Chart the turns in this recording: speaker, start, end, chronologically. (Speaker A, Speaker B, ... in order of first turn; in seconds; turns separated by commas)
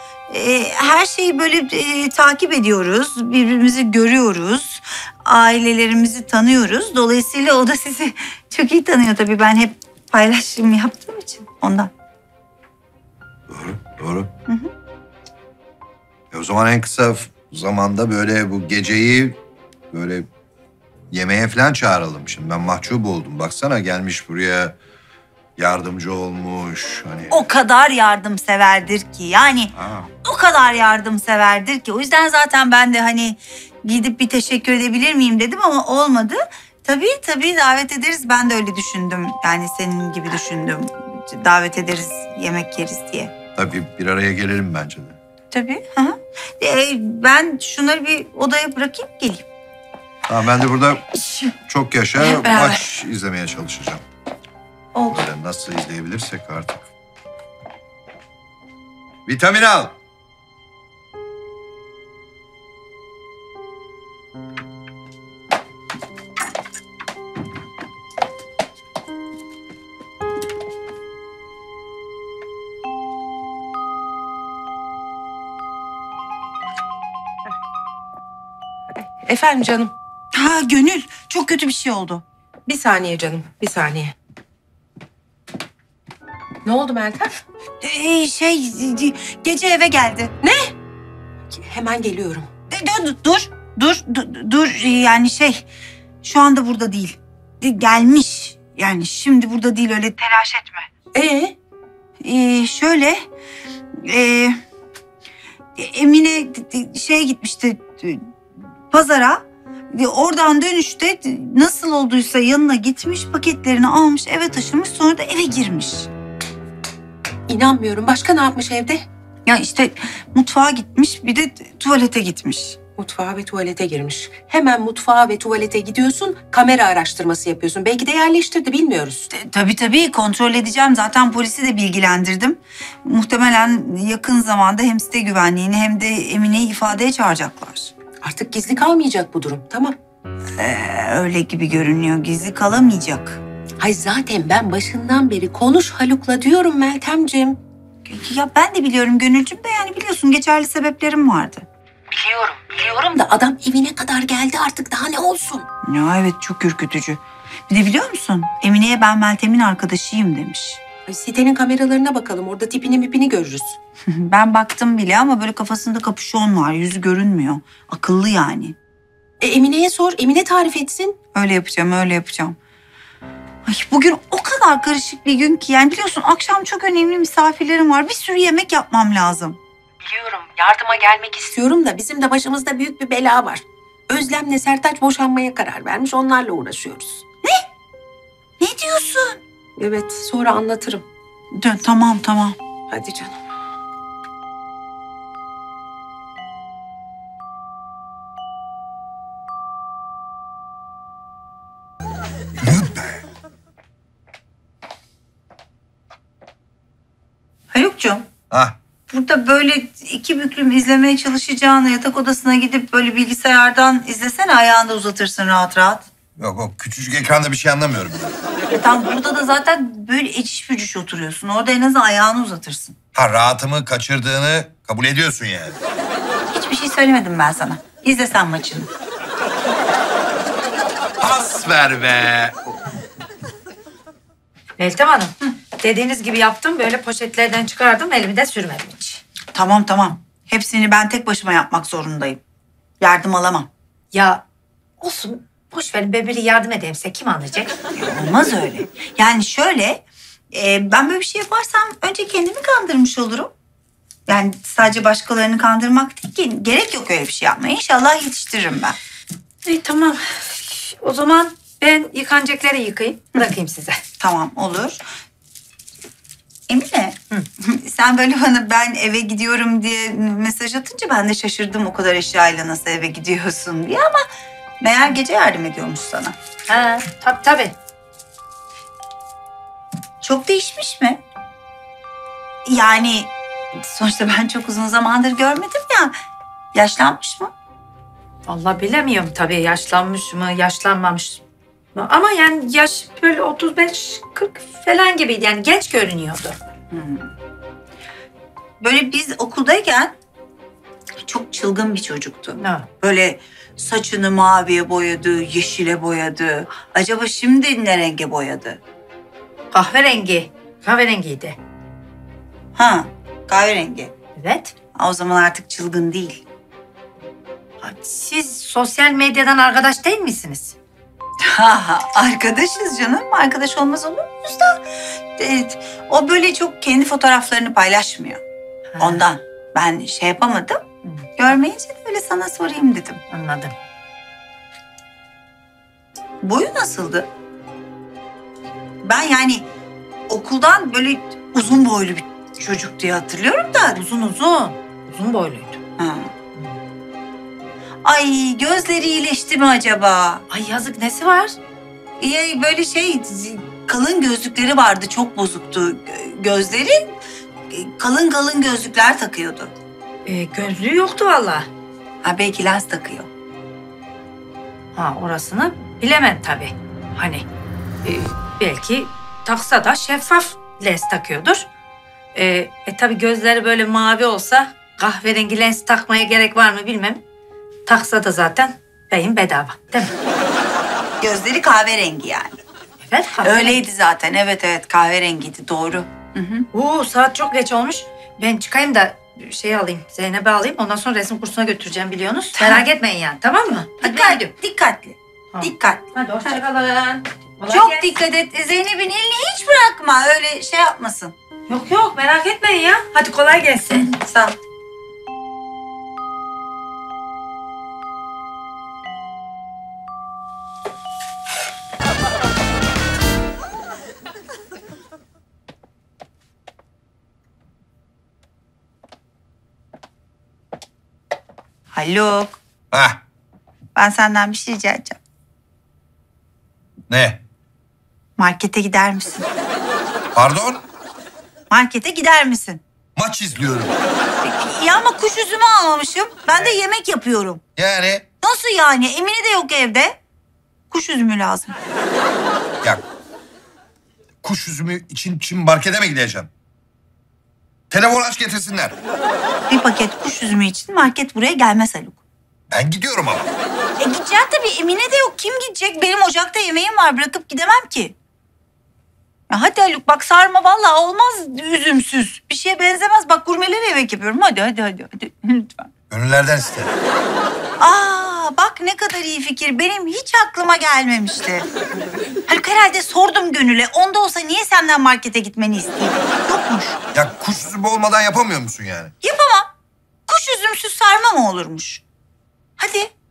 Speaker A: 0.3-11.9, Speaker B: 13.5-14.3, Speaker B: 16.3-19.4, Speaker B: 19.9-20.3, Speaker B: 21.1-24.8, Speaker B: 25.6-27.4, Speaker A: 27.3-43.3, Speaker B: 29.8-30.1, Speaker B: 43.6-45.2, Speaker A: 45.5-49.5, Speaker B: 50.3-51.1, Speaker A: 51.2-51.5, Speaker B: 51.6-54.0, Speaker A: 52.2-52.9, Speaker A: 54.9-55.2, Speaker B: 55.1-56.9, Speaker B: 59.3-59.9, Speaker C: 79.2-79.9, Speaker A: 80.3-82.2, Speaker C: 82.7-84.2, Speaker C: 86.7-87.4, Speaker A: 87.8-90.3, Speaker C: 90.4-90.8, Speaker C: 91.5-92.5, Speaker A: 92.7-95.6, Speaker A: 96.2-100.9, Speaker C: 101.2-101.5, Speaker A: 102.2-103.2, Speaker A: 104.0-104.6, Speaker A: 105.8-108.3, Speaker A: 108.9-116.1, Speaker C: 117.5-119.0, Speaker A: 119.5-122.8, Speaker C: 123.0-129.3, Speaker A: 129.3-137.9, Speaker C: 138.2-140.0, Speaker A: 140.6-143.4, Speaker C: 143.8-147.6, Speaker A: 148.1-151.7, Speaker C: 152.1-155.7, Speaker A: 155.9-160.8, Speaker C: 161.1-163.8, Speaker A: 164.1-168.8, Speaker C: 169.4-171.2, Speaker A: 171.3-172.6, Speaker A: 173.7-179.6, Speaker C: 180.0-187.2, Speaker A: 188.6-189.4, Speaker C: 189.8-191.1, Speaker A: 191.5-192.6, Speaker C: 192.9-193.4, Speaker B: 202.6-203.2, Speaker A: 207.7-208.2, Speaker B: 208.5-208.8, Speaker A: 209.1-216.1, Speaker B: 216.4-218.3, Speaker A: 218.7-223.0, Speaker B: 223.1-225.8, Speaker A: 226.5-228.9, Speaker B: 231.2-232.6, Speaker D: 234.8-239.2, Speaker A: 239.5-242.4, Speaker A: 243.0-243.7, Speaker D: 244.1-244.4, Speaker D: 245.0-247.8, Speaker A: 248.0-253.5, Speaker A: 254.3-259.0, Speaker D: 259.6-264.0, Speaker A: 264.2-265.0, Speaker A: 266.7-274.2, Speaker A: 274.8-276.4, Speaker D: 276.7-277.8, Speaker A: 280.2-281.2, Speaker A: 282.7-286.1, Speaker A: 286.7-287.5, Speaker D: 288.5-291.4, Speaker D: 291.9-296.6, Speaker A: 296.9-297.3, Speaker A: 298.8-300.1, Speaker A: 301.2-308.8, Speaker D: 302.6-302.9, Speaker D: 309.7-311.6, Speaker A: 312.8-314.1, Speaker D: 314.4-314.7, Speaker A: 314.9-316.4, Speaker D: 317.8-320.8, Speaker A: 321.4-324.8, Speaker A: 325.4-328.4, Speaker D: 329.0-329.2, Speaker A: 329.0-330.8, Speaker A: 331.4-333.2, Speaker D: 333.3-333.7, Speaker A: 336.4-337.3, Speaker A: 339.0-339.7, Speaker A: 340.3-344.0, Speaker D: 344.0-345.8, Speaker A: 346.0-346.3, Speaker A: 348.0-350.4, Speaker D: 350.5-351.6, Speaker A: 352.2-357.1, Speaker A: 357.7-359.7, Speaker D: 360.3-361.7, Speaker A: 362.2-363.3, Speaker D: 364.9-367.4, Speaker D: 368.0-371.7, Speaker D: 372.3-377.2, Speaker D: 377.9-380.1, Speaker A: 381.2-382.6, Speaker D: 383.1-383.8, Speaker A: 383.4-386.7, Speaker D: 386.7-394.5, Speaker A: 392.6-392.8, Speaker A: 394.0-396.6, Speaker D: 395.5-398.1, Speaker A: 397.7-401.4, Speaker D: 401.7-404.1, Speaker A: 403.9-404.6, Speaker A: 421.9-422.6, Speaker B: 422.9-423.2, Speaker A: 423.9-425.2, Speaker B: 427.1-427.4, Speaker A: 428.4-429.5, Speaker B: 430.4-430.8, Speaker A: 431.7-432.8, Speaker B: 433.2-433.9, Speaker A: 434.4-437.6, Speaker B: 437.8-438.2, Speaker A: 438.4-440.2, Speaker A: 440.9-441.7, Speaker B: 444.4-446.5, Speaker B: 447.9-449.0, Speaker A: 449.7-452.2, Speaker B: 452.7-453.5, Speaker A: 454.0-458.1, Speaker A: 459.5-465.9, Speaker B: 466.1-466.9, Speaker A: 467.8-471.7, Speaker A: 472.5-477.0, Speaker B: 477.1-479.1, Speaker A: 479.2-479.7, Speaker A: 480.3-482.0, Speaker A: 482.8-483.1